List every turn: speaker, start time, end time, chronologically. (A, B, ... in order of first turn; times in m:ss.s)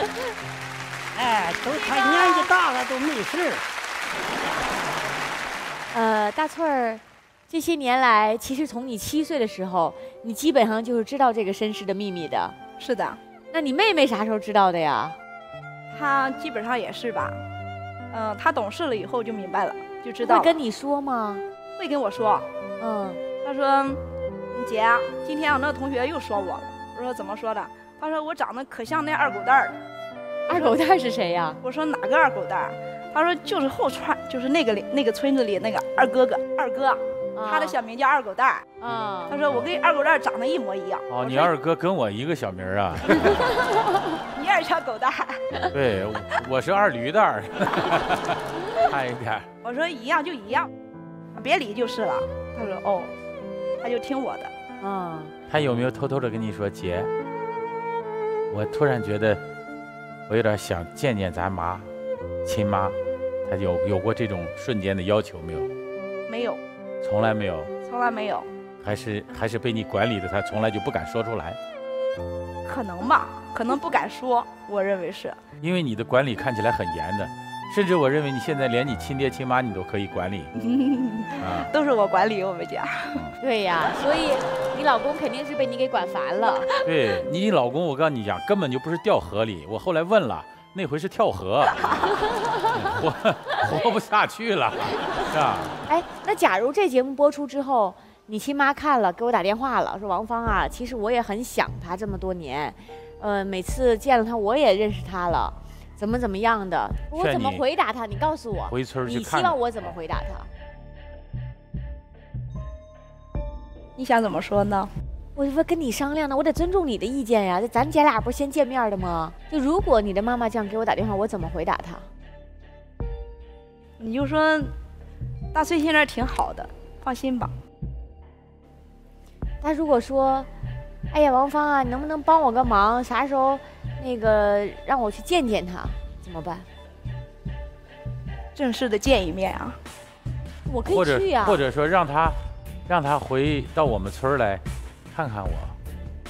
0:01.2-0:03.6 A
0:02.1-0:02.4 B
0:05.9-0:12.6 B
0:12.8-0:13.2 C
0:13.5-0:15.2 B
0:15.9-0:17.4 C
0:18.1-0:20.5 C
0:20.2-0:21.4 B
0:21.8-0:22.5 C
0:22.8-0:23.2 B
0:23.4-0:29.8 C
0:30.5-0:31.6 B
0:30.5-0:30.8 C
0:31.6-0:38.6 C
0:37.4-0:37.8 B
0:38.8-0:39.4 B
0:39.3-0:41.5 C
0:41.1-0:43.3 D
0:44.2-0:45.4 C
0:45.7-0:49.5 D
0:49.6-0:50.7 C
0:51.4-0:53.1 C
0:53.8-0:54.5 C
0:54.8-0:55.3 B
0:55.5-0:57.1 D
0:58.5-0:59.4 D
1:00.3-1:01.9 D
1:02.5-1:03.0 D
1:03.5-1:05.7 D
1:06.3-1:06.6 C
1:07.0-1:07.7 D
1:07.8-1:08.5 C
1:08.8-1:11.6 D
1:12.6-1:15.4 C
1:15.6-1:20.5 D
1:20.6-1:23.2 C
1:21.4-1:21.7 D
1:23.4-1:26.7 B
1:26.8-1:31.9 D
1:32.7-1:35.8 D
1:35.9-1:50.5 B
1:47.2-1:47.6 D
1:48.7-1:49.6 D
1:54.0-1:54.9 C
1:55.4-2:02.1 B
2:04.0-2:04.7 C
2:05.5-2:07.5 C
2:09.6-2:10.5 B
2:11.1-2:16.7 B
2:18.6-2:19.8 C
2:20.7-2:21.6 B
2:20.9-2:22.4 D
2:22.9-2:25.8 D